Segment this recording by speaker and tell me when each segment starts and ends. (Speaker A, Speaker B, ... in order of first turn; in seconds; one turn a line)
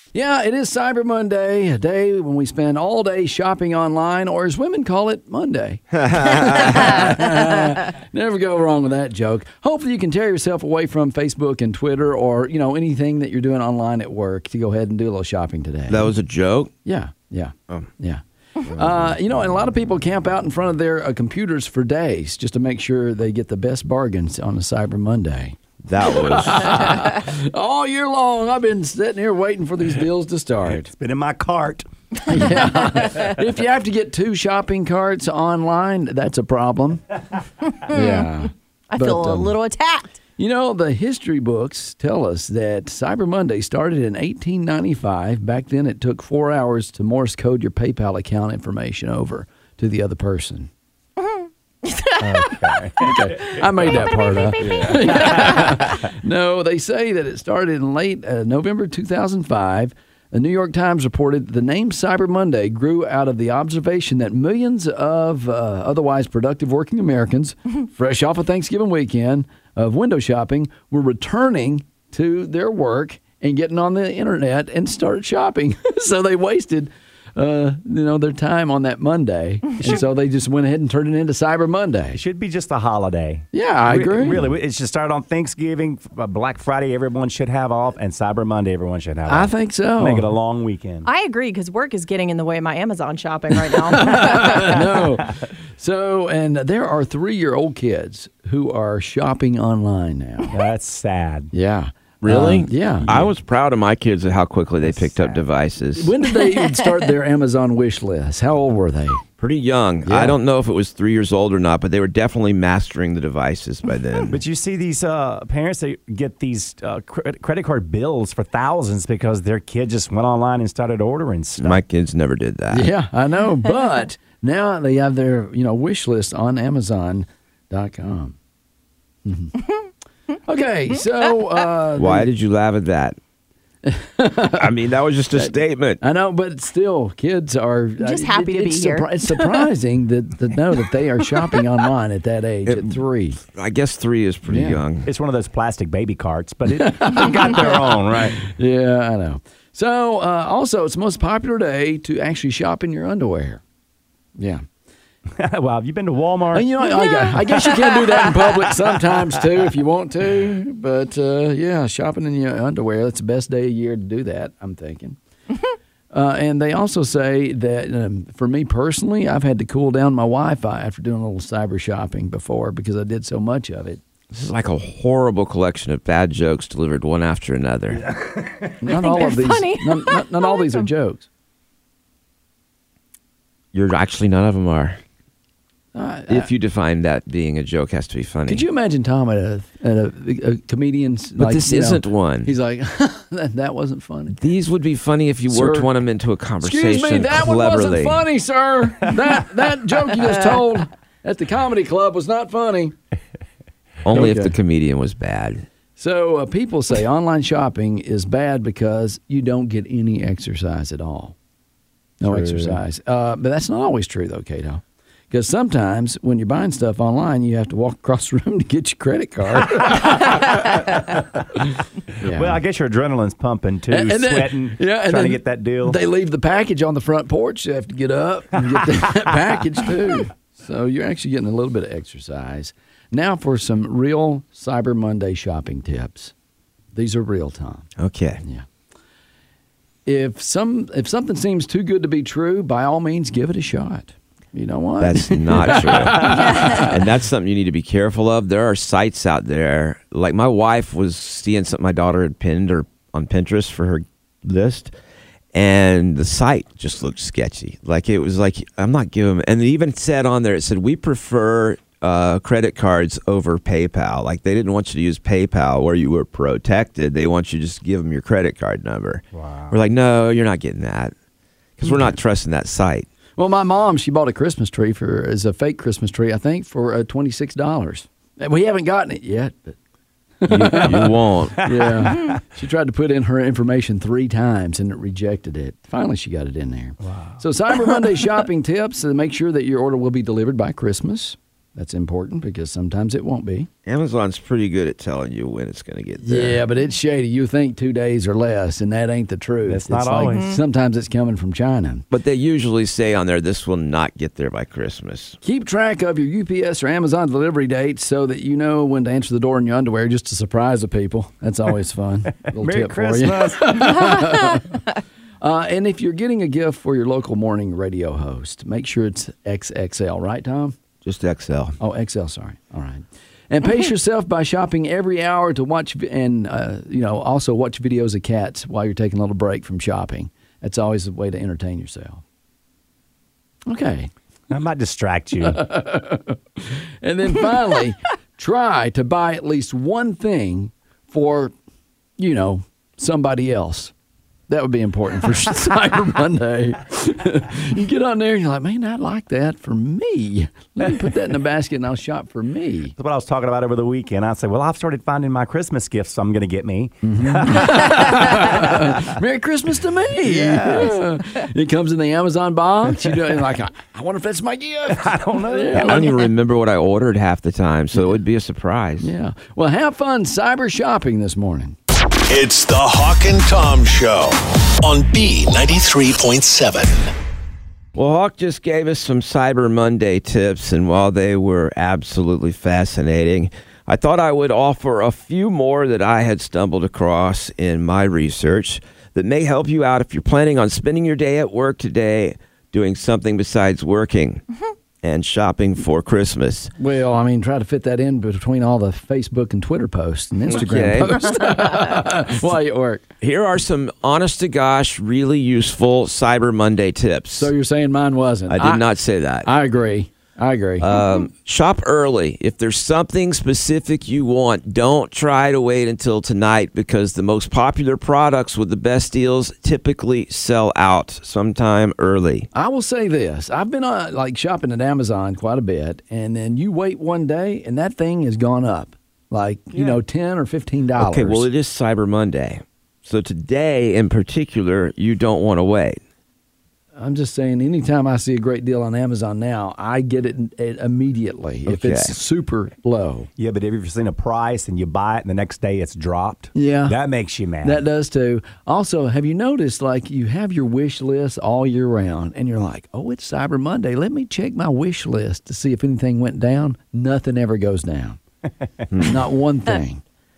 Speaker A: 0.1-16.1
Speaker B: 6.0-7.1
Speaker B: 15.9-16.7
Speaker A: 16.8-18.2
Speaker A: 18.7-25.6
Speaker B: 25.8-27.0
Speaker A: 26.1-30.9
Speaker C: 30.6-32.6
Speaker A: 32.3-37.0
Speaker D: 37.8-38.3
Speaker A: 37.9-39.5
Speaker D: 38.9-40.2
Speaker A: 40.4-50.7
Speaker D: 51.2-52.8
Speaker C: 52.2-55.9
Speaker A: 53.0-82.2
Speaker D: 54.2-55.7
Speaker C: 82.1-91.1
Speaker A: 83.5-84.5
Speaker A: 89.3-90.3
Speaker D: 91.0-94.7
Speaker A: 93.9-100.5
Speaker C: 94.1-94.6
Speaker C: 100.5-101.5
Speaker A: 101.5-103.1
Speaker B: 102.2-106.1
Speaker C: 103.0-103.3
Speaker C: 104.8-105.4
Speaker A: 106.0-109.2
Speaker B: 109.4-114.3
Speaker A: 110.0-110.4
Speaker C: 114.3-121.8
Speaker B: 121.6-122.9
Speaker A: 122.7-128.3
Speaker A: 129.2-129.6
Speaker A: 130.4-132.3
Speaker B: 131.9-133.2
Speaker A: 133.8-134.7
Speaker B: 134.5-136.0
Speaker A: 135.3-143.4
Speaker D: 138.0-139.7
Speaker B: 142.7-143.0
Speaker B: 143.5-145.1
Speaker A: 144.5-144.8
Speaker C: 145.0-148.4
Speaker A: 146.7-153.6
Speaker A: 154.4-154.6
Speaker C: 155.3-156.9
Speaker A: 156.5-165.2
Speaker D: 157.0-157.6
Speaker C: 158.7-159.2
Speaker A: 166.1-174.0
Speaker B: 174.3-178.0
Speaker C: 177.9-178.9
Speaker A: 178.8-181.2
Speaker D: 178.9-180.9
Speaker B: 183.7-185.0
Speaker A: 185.9-186.5
Speaker B: 186.3-188.6
Speaker A: 188.5-194.4
Speaker B: 191.4-192.5
Speaker B: 194.3-198.2
Speaker A: 195.5-195.9
Speaker A: 196.6-202.9
Speaker B: 204.0-205.7
Speaker A: 204.1-204.5
Speaker A: 206.0-211.3
Speaker A: 212.2-221.0
Speaker C: 212.2-212.8
Speaker A: 222.2-222.6
Speaker C: 222.2-226.0
Speaker A: 223.9-236.3
Speaker A: 236.9-237.9
Speaker B: 238.0-238.4
Speaker A: 240.1-246.9
Speaker B: 245.0-254.9
Speaker D: 246.3-246.8
Speaker B: 255.5-271.1
Speaker C: 269.3-269.8
Speaker B: 271.8-273.1
Speaker A: 271.9-272.1
Speaker A: 273.4-279.8
Speaker A: 280.4-293.7
Speaker B: 280.5-281.7
Speaker C: 281.6-282.4
Speaker C: 287.0-287.4
Speaker B: 293.9-296.6
Speaker A: 296.2-302.0
Speaker C: 299.6-300.5
Speaker D: 300.3-300.6
Speaker B: 302.1-305.4
Speaker A: 305.4-314.7
Speaker C: 312.5-314.2
Speaker A: 315.4-320.7
Speaker B: 321.0-321.8
Speaker A: 321.8-332.2
Speaker A: 333.7-334.1
Speaker C: 334.5-335.6
Speaker A: 335.4-341.5
Speaker A: 342.2-343.9
Speaker A: 344.5-352.9
Speaker C: 353.0-359.1
Speaker A: 357.0-366.2
Speaker C: 360.2-361.0
Speaker C: 364.9-366.1
Speaker B: 365.8-369.1
Speaker A: 369.0-371.8
Speaker E: 372.3-377.1
Speaker B: 377.9-394.4
Speaker B: 395.0-396.7
Speaker A: 396.8-403.1
Speaker B: 400.5-401.8
Speaker B: 403.2-407.5
Speaker A: 407.4-408.9
Speaker B: 408.5-409.5
Speaker A: 409.4-410.8
Speaker B: 410.8-422.5
Speaker A: 422.5-431.4
Speaker B: 431.0-436.0
Speaker A: 436.9-443.3
Speaker B: 441.6-442.1
Speaker C: 443.4-447.8
Speaker A: 446.5-446.9
Speaker A: 447.6-458.2
Speaker B: 458.9-459.2
Speaker A: 459.0-460.0